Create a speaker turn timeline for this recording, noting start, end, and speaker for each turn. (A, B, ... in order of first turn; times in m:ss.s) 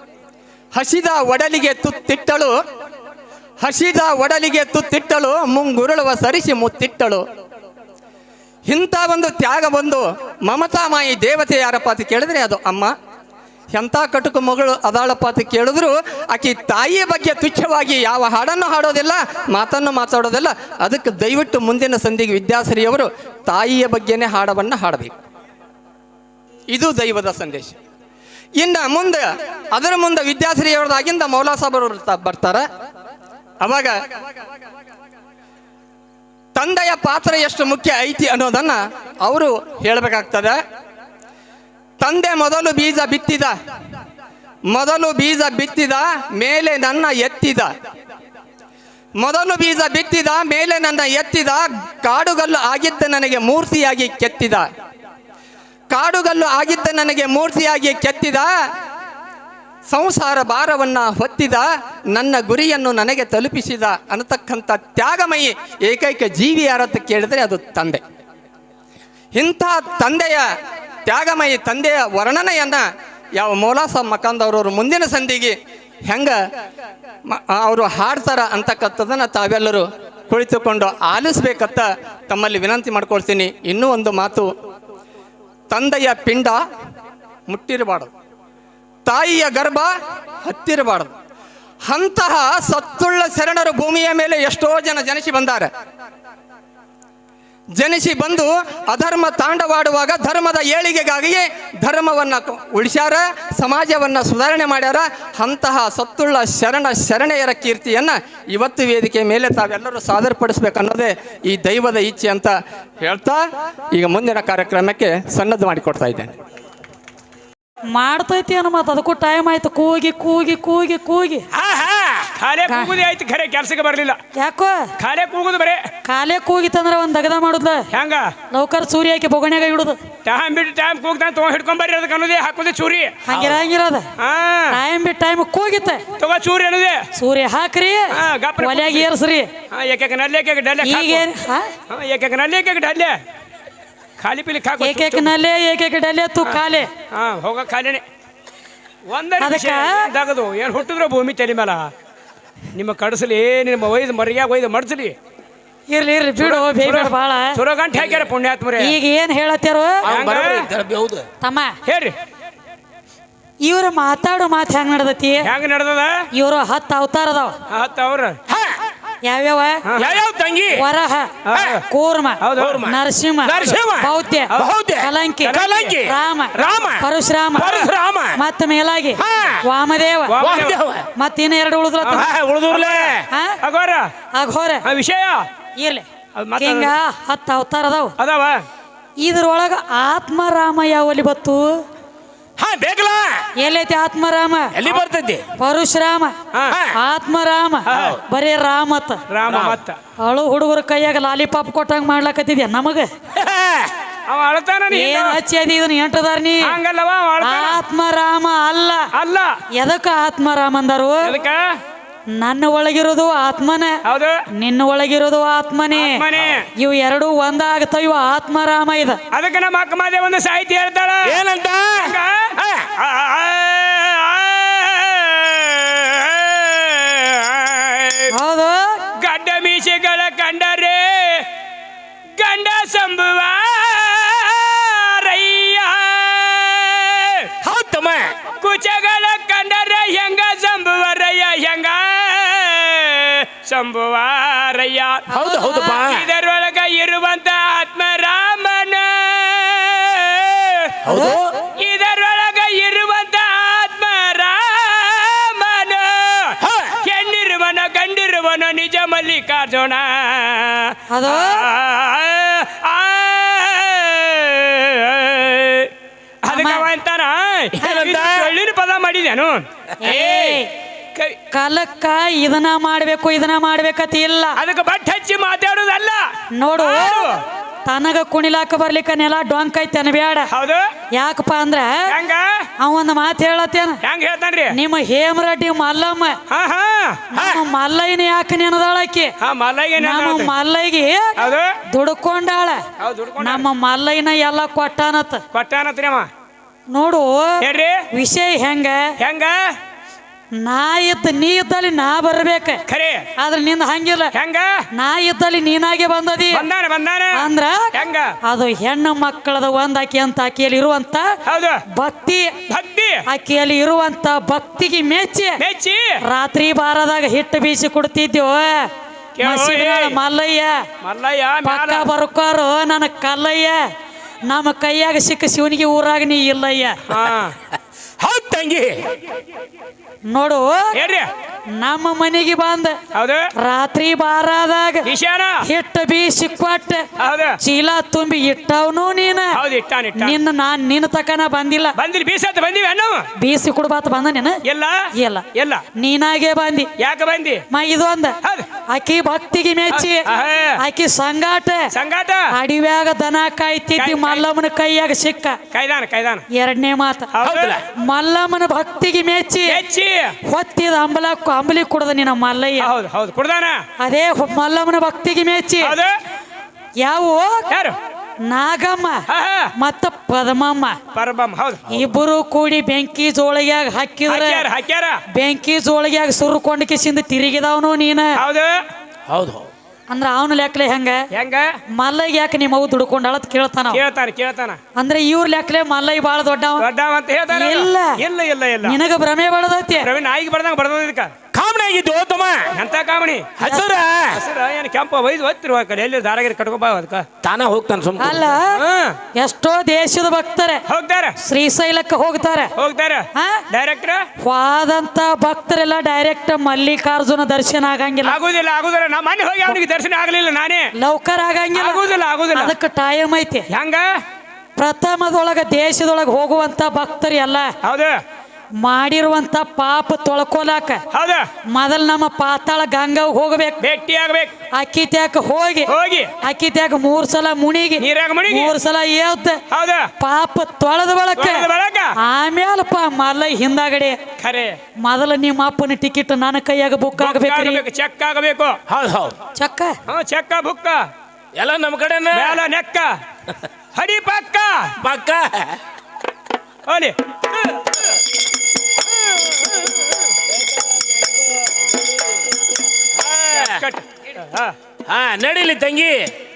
0:00.7-0:02.5 A
0:03.6-0:07.2 A
0:08.7-0:12.9 A
0:13.7-0:25.2 A
0:26.7-0:27.8 A
0:28.6-0:32.6 A
0:33.6-0:34.0 A
0:36.6-0:40.6 A
0:42.0-0:43.5 A
0:44.7-0:47.7 A
0:49.2-0:54.7 A
0:55.9-0:58.5 A
0:59.9-1:08.0 A
1:09.3-1:10.5 A
1:11.0-1:12.8 A
1:13.4-1:15.6 A
1:16.1-1:16.4 A
1:17.3-1:24.5 A
1:25.7-1:26.6 A
1:27.5-1:28.1 A
1:29.0-1:29.9 A
1:30.4-1:31.1 A
1:31.8-1:35.7 A
1:37.8-1:56.3 A
1:57.9-2:01.5 B
2:01.5-2:02.3 C
2:02.4-2:04.2 D
2:02.7-2:03.0 B
2:04.3-2:04.9 B
2:05.0-2:05.9 D
2:06.0-2:07.9 B
2:07.9-2:08.3 D
2:08.5-2:10.0 B
2:10.2-2:13.6 D
2:13.2-2:14.1 B
2:14.2-2:14.8 D
2:14.7-2:16.0 B
2:16.2-2:17.0 D
2:17.1-2:19.5 B
2:18.1-2:19.1 D
2:19.7-2:21.2 D
2:20.8-2:21.7 B
2:21.9-2:23.2 D
2:24.2-2:25.3 D
2:24.8-2:26.9 B
2:26.4-2:28.0 D
2:29.1-2:31.9 D
2:29.4-2:30.1 B
2:32.7-2:35.2 D
2:35.9-2:37.6 B
2:36.4-2:39.0 D
2:37.9-2:38.2 C
2:38.8-2:40.0 B
2:40.0-2:41.3 C
2:40.1-2:40.7 D
2:41.4-2:41.8 B
2:41.8-2:42.1 D
2:43.6-2:45.5 B
2:45.4-2:46.2 D
2:46.3-2:47.6 B
2:47.7-2:48.4 D
2:48.5-2:48.8 C
2:49.2-2:49.8 B
2:49.8-2:50.2 D
2:50.0-2:50.8 C
2:50.7-2:51.4 B
2:51.4-2:51.8 D
2:51.9-3:00.4 B
2:52.4-2:52.8 D
2:52.6-2:57.0 C
2:55.4-2:56.0 D
2:57.6-2:58.4 C
2:59.2-2:59.6 C
3:00.3-3:00.8 D
3:00.4-3:01.1 C
3:01.2-3:02.3 B
3:02.0-3:04.1 D
3:02.1-3:03.2 C
3:03.3-3:03.6 B
3:04.3-3:04.8 B
3:04.8-3:05.5 D
3:05.8-3:06.1 B
3:06.4-3:06.9 D
3:06.6-3:08.1 B
3:08.2-3:08.6 D
3:09.2-3:11.8 B
3:12.6-3:13.5 C
3:13.6-3:14.7 B
3:14.7-3:15.4 C
3:15.6-3:16.3 B
3:16.5-3:16.8 D
3:16.7-3:17.0 C
3:16.9-3:19.2 B
3:17.9-3:18.2 D
3:17.9-3:18.2 C
3:19.3-3:20.0 D
3:19.5-3:19.8 C
3:20.2-3:23.1 B
3:23.4-3:23.9 C
3:24.3-3:25.4 D
3:24.9-3:26.8 B
3:26.6-3:27.8 D
3:27.4-3:29.1 B
3:29.1-3:29.6 D
3:29.7-3:31.3 B
3:31.2-3:31.8 D
3:32.3-3:34.0 B
3:34.0-3:34.4 D
3:34.5-3:36.2 B
3:35.9-3:36.7 D
3:36.8-3:39.2 B
3:39.3-3:41.4 D
3:41.2-3:42.9 C
3:42.0-3:48.3 D
3:48.3-3:49.0 B
3:49.2-3:51.5 D
3:52.4-3:57.5 D
3:57.6-3:58.3 C
3:58.6-4:05.3 D
4:05.3-4:06.0 B
4:05.3-4:06.3 C
4:05.9-4:10.9 D
4:11.0-4:11.5 C
4:11.1-4:11.4 B
4:11.8-4:25.9 D
4:16.6-4:17.0 C
4:21.1-4:21.6 B
4:26.4-4:31.4 D
4:26.5-4:26.9 B
4:27.8-4:28.5 C
4:30.0-4:30.7 B
4:31.5-4:34.6 B
4:34.6-4:37.4 D
4:36.5-4:37.3 B
4:37.8-4:40.5 B
4:40.5-4:40.9 D
4:41.1-4:42.1 B
4:42.1-4:42.6 D
4:42.8-4:44.0 B
4:44.0-4:44.8 D
4:44.7-4:46.4 B
4:46.5-4:47.3 D
4:47.3-4:49.3 B
4:47.4-4:47.6 C
4:49.4-4:50.5 D
4:50.0-4:52.8 B
4:51.4-4:51.8 D
4:53.0-4:53.7 D
4:53.4-4:55.4 B
4:55.5-4:56.3 D
4:56.9-4:59.1 B
4:57.6-4:58.0 D
4:59.2-4:59.8 D
5:00.5-5:02.8 B
5:02.9-5:03.3 D
5:03.4-5:04.3 B
5:04.3-5:04.8 D
5:04.9-5:06.6 B
5:06.5-5:08.3 D
5:07.3-5:07.9 B
5:08.4-5:11.3 B
5:11.4-5:11.8 D
5:11.9-5:12.5 B
5:12.7-5:13.2 D
5:13.3-5:15.6 B
5:15.6-5:16.2 D
5:16.2-5:18.9 B
5:19.4-5:20.2 D
5:19.4-5:20.8 B
5:21.0-5:22.1 D
5:21.6-5:23.8 B
5:24.4-5:27.0 B
5:27.1-5:27.6 D
5:28.2-5:29.1 C
5:30.3-5:30.9 B
5:30.9-5:31.3 D
5:31.7-5:33.0 B
5:33.1-5:33.5 D
5:33.6-5:35.1 B
5:35.0-5:35.6 D
5:35.6-5:37.1 B
5:37.2-5:37.6 D
5:37.6-5:39.6 B
5:39.5-5:40.4 D
5:40.2-5:41.9 B
5:42.0-5:43.2 D
5:43.4-5:44.6 B
5:44.6-5:45.8 D
5:45.1-5:45.4 B
5:46.0-5:46.9 B
5:47.0-5:47.6 D
5:47.7-5:48.4 B
5:48.9-5:50.3 B
5:49.9-5:50.8 D
5:50.8-5:51.9 B
5:51.9-5:52.5 D
5:52.5-5:55.6 B
5:54.0-5:54.4 D
5:55.7-5:56.4 D
5:56.5-5:57.3 B
5:57.3-5:57.8 D
5:57.4-5:57.8 C
5:58.0-5:59.8 B
5:59.7-6:00.3 D
6:00.4-6:02.9 B
6:02.8-6:03.8 D
6:04.0-6:06.0 B
6:05.8-6:06.2 D
6:07.0-6:07.7 B
6:07.7-6:08.0 D
6:08.4-6:09.2 B
6:09.3-6:09.7 D
6:09.8-6:11.0 B
6:11.1-6:11.8 D
6:11.9-6:14.6 B
6:14.3-6:15.2 D
6:15.3-6:18.4 B
6:18.4-6:18.8 D
6:19.3-6:19.7 C
6:20.1-6:21.2 B
6:21.3-6:21.7 D
6:21.9-6:24.0 B
6:23.9-6:24.8 D
6:24.9-6:26.8 B
6:26.8-6:29.0 D
6:27.5-6:28.2 B
6:28.8-6:30.1 B
6:30.0-6:31.3 D
6:31.5-6:32.7 C
6:32.7-6:33.6 D
6:33.6-6:34.4 C
6:34.3-6:37.3 D
6:37.4-6:38.5 C
6:38.2-6:38.8 B
6:38.7-6:39.2 D
6:39.3-6:40.8 B
6:40.9-6:41.3 D
6:41.4-6:42.7 B
6:42.8-6:44.3 D
6:43.3-6:43.6 B
6:44.4-6:48.4 B
6:48.2-6:50.9 D
6:50.9-6:52.0 B
6:51.7-6:52.7 D
6:52.5-6:53.7 B
6:53.7-6:54.1 D
6:54.8-6:57.7 B
6:57.8-6:58.2 D
6:58.8-7:01.0 B
7:01.1-7:01.5 D
7:01.7-7:03.8 B
7:03.8-7:04.5 D
7:04.7-7:09.6 B
7:05.9-7:06.3 D
7:08.0-7:08.8 D
7:09.7-7:10.1 D
7:10.2-7:11.7 B
7:11.4-7:12.1 D
7:12.2-7:14.2 B
7:14.4-7:14.8 D
7:15.0-7:17.8 B
7:17.2-7:18.8 D
7:18.9-7:19.3 C
7:19.5-7:20.0 B
7:20.1-7:21.0 D
7:21.5-7:22.6 C
7:22.3-7:23.1 D
7:23.9-7:24.9 D
7:25.0-7:25.8 C
7:26.8-7:27.2 D
7:33.2-7:33.8 C
7:33.5-7:34.7 D
7:35.0-7:36.3 C